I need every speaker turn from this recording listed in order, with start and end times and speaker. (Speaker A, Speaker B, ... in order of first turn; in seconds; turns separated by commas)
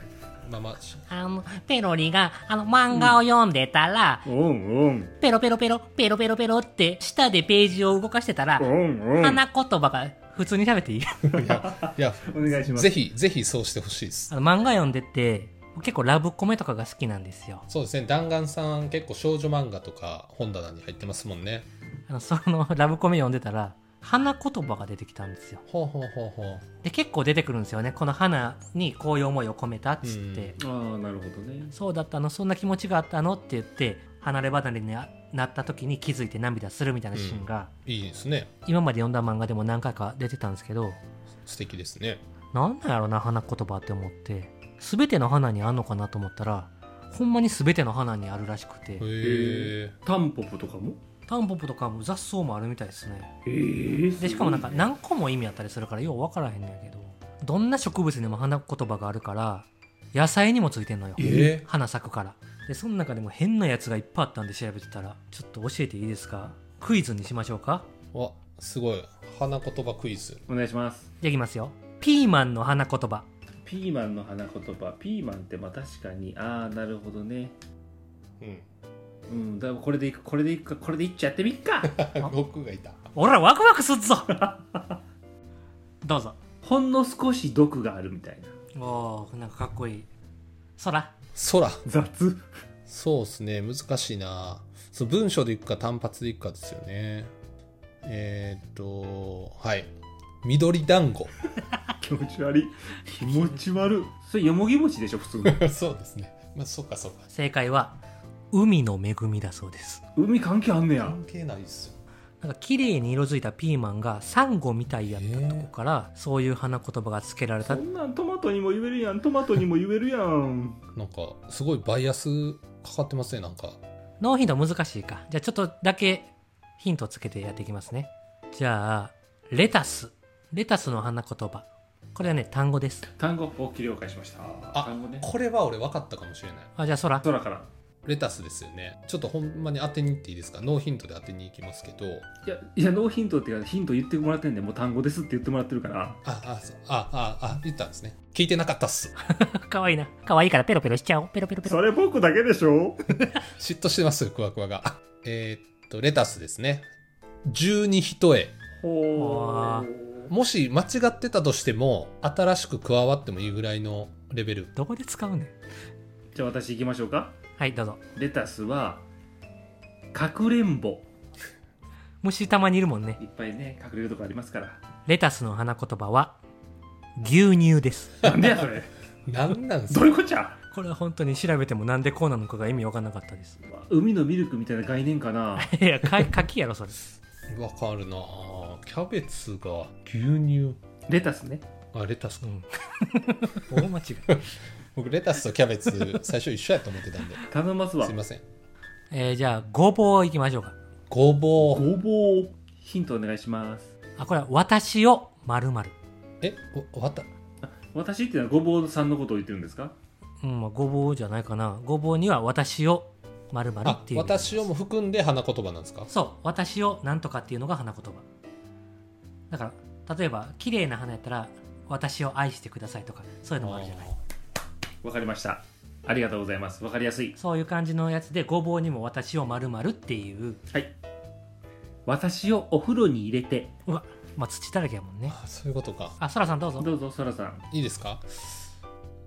Speaker A: 0.4-1.1, Speaker B: 1.1-4.3, Speaker C: 2.9-3.2, Speaker C: 4.3-5.1, Speaker B: 5.2-11.4, Speaker C: 8.6-9.4, Speaker A: 11.3-14.3, Speaker C: 11.5-13.0, Speaker B: 14.3-17.7, Speaker A: 17.7-21.7, Speaker B: 22.1-25.6, Speaker A: 25.7-26.6, Speaker B: 26.8-30.6, Speaker A: 30.0-30.6, Speaker C: 30.6-31.7, Speaker B: 31.7-37.7, Speaker A: 37.1-38.5, Speaker B: 38.6-41.0, Speaker A: 41.5-42.2, Speaker B: 42.5-49.1, Speaker A: 49.0-50.0, Speaker C: 49.2-51.0, Speaker B: 51.3-53.3, Speaker C: 53.5-54.9, Speaker B: 54.2-67.9, Speaker A: 61.2-61.7, Speaker C: 61.2-61.5, Speaker A: 68.1-70.4, Speaker C: 70.5-71.1, Speaker B: 71.2-73.3, Speaker C: 73.7-77.5, Speaker A: 78.4-78.7, Speaker C: 79.3-82.0, Speaker A: 81.8-83.0, Speaker B: 83.2-84.5, Speaker C: 84.4-84.8, Speaker B: 86.0-86.4, Speaker C: 86.6-88.5, Speaker B: 88.8-90.1, Speaker B: 90.8-91.1, Speaker A: 91.3-91.8, Speaker C: 91.9-92.4, Speaker A: 92.9-97.3, Speaker A: 98.0-99.9, Speaker A: 100.4-101.3, Speaker C: 102.0-105.6, Speaker A: 105.4-107.3, Speaker B: 107.3-108.0, Speaker B: 108.5-110.0, Speaker C: 110.2-111.2, Speaker A: 111.0-112.0, Speaker B: 112.4-117.8, Speaker A: 115.1-115.7, Speaker C: 117.6-120.8, Speaker A: 121.0-123.8, Speaker B: 124.2-133.1, Speaker C: 133.2-135.3, Speaker A: 134.7-136.7, Speaker B: 136.8-137.3, Speaker C: 137.2-137.7, Speaker A: 138.1-142.3, Speaker C: 142.5-146.2, Speaker A: 146.2-149.2, Speaker B: 149.2-151.8, Speaker C: 151.6-153.0, Speaker A: 153.3-156.9, Speaker A: 157.5-158.6, Speaker C: 158.8-160.3, Speaker B: 159.2-159.9, Speaker A: 160.3-164.7, Speaker B: 164.8-165.5, Speaker C: 166.3-167.3, Speaker B: 167.6-168.0, Speaker C: 168.2-169.0, Speaker C: 170.1-171.1, Speaker B: 172.2-173.2, Speaker C: 173.2-174.8, Speaker B: 175.1-176.4, Speaker B: 177.2-178.2, Speaker C: 178.2-178.9, Speaker A: 179.3-180.1, Speaker C: 179.9-180.6, Speaker B: 180.7-183.6, Speaker C: 183.7-185.8, Speaker B: 185.6-187.0, Speaker A: 187.5-190.8, Speaker C: 191.1-191.7, Speaker A: 191.9-192.4, Speaker B: 192.4-194.3, Speaker A: 194.9-197.5, Speaker C: 197.5-198.2, Speaker A: 198.0-198.4, Speaker B: 199.1-200.8, Speaker A: 201.1-201.9, Speaker C: 201.6-203.9, Speaker B: 204.2-205.9, Speaker A: 206.4-207.3, Speaker C: 207.7-209.9, Speaker B: 210.4-214.7, Speaker A: 213.8-216.1, Speaker B: 216.1-218.2, Speaker B: 219.5-224.1, Speaker A: 223.6-224.2, Speaker C: 225.0-227.4, Speaker B: 227.4-230.6, Speaker C: 232.1-233.7, Speaker B: 233.9-235.4, Speaker A: 235.3-236.2, Speaker B: 236.2-236.9, Speaker C: 236.8-237.7, Speaker A: 237.7-238.2